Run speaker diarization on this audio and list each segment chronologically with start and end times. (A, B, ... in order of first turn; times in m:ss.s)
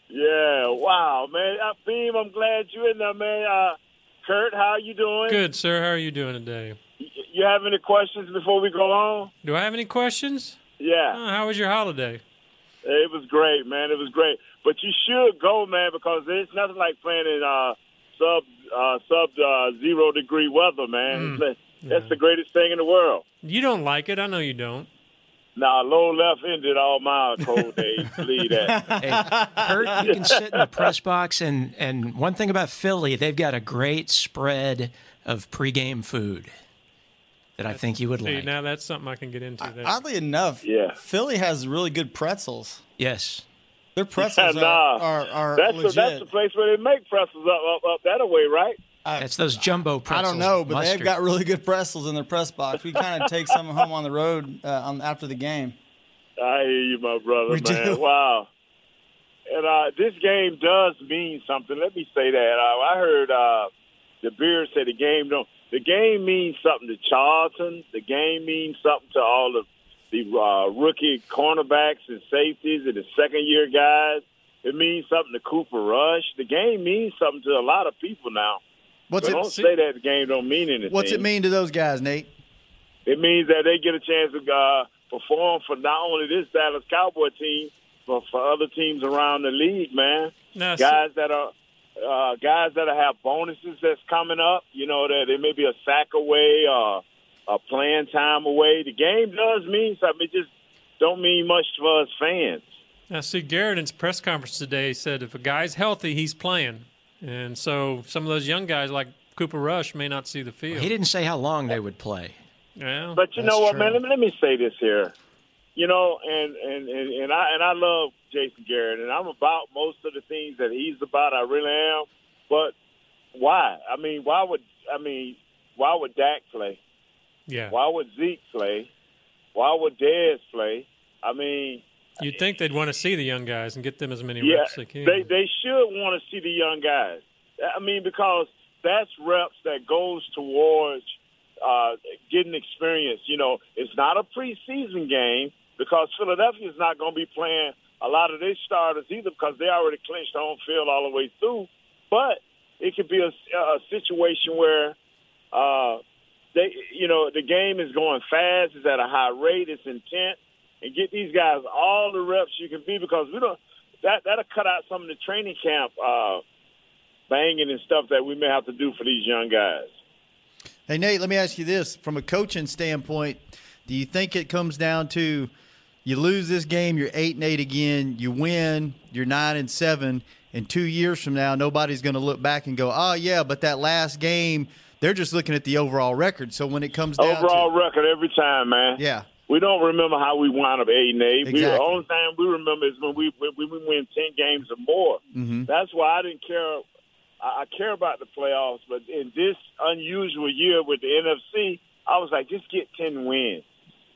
0:00.1-0:05.4 A
0:05.3-0:06.8 B
0:07.0-0:09.3 A
0:09.4-0:10.6 B
0:10.8-0:11.2 A
0:11.1-0:12.2 B
0:12.8-0:23.2 A
0:21.1-0:22.1 B
0:23.4-0:24.9 B
0:25.6-0:28.9 A
0:28.7-0:29.9 C
0:29.0-0:36.5 D
0:30.0-0:30.9 A
0:37.6-0:38.5 D
0:37.7-0:40.0 B
0:39.6-0:42.8 C
0:40.6-0:41.0 A
0:43.0-0:43.4 D
0:44.0-0:46.3 C
0:44.2-0:48.8 A
0:49.0-0:55.8 C
0:49.2-0:51.2 D
0:56.4-0:58.5 A
0:57.5-0:58.0 C
0:59.5-1:03.7 A
1:04.2-1:18.6 A
1:19.1-1:19.6 E
1:19.2-1:21.2 A
1:20.9-1:22.3 E
1:23.1-1:40.5 A
1:30.6-1:31.0 B
1:41.0-1:42.6 A
1:43.1-1:50.9 B
1:50.7-1:52.4 D
1:52.8-1:53.2 B
1:53.2-1:55.1 A
1:53.4-1:54.0 E
1:55.8-2:02.7 A
2:03.3-2:06.8 A
2:07.5-2:07.8 B
2:07.7-2:08.9 A
2:09.6-2:12.4 A
2:12.2-2:15.3 B
2:14.4-2:35.0 A
2:35.5-2:36.0 A
2:36.6-2:46.4 A
2:47.3-2:49.9 A
2:50.9-2:55.5 E
2:56.0-3:07.7 E
3:07.2-3:16.8 A
3:09.0-3:09.3 E
3:11.4-3:12.0 E
3:15.3-3:15.7 E
3:17.4-3:23.6 A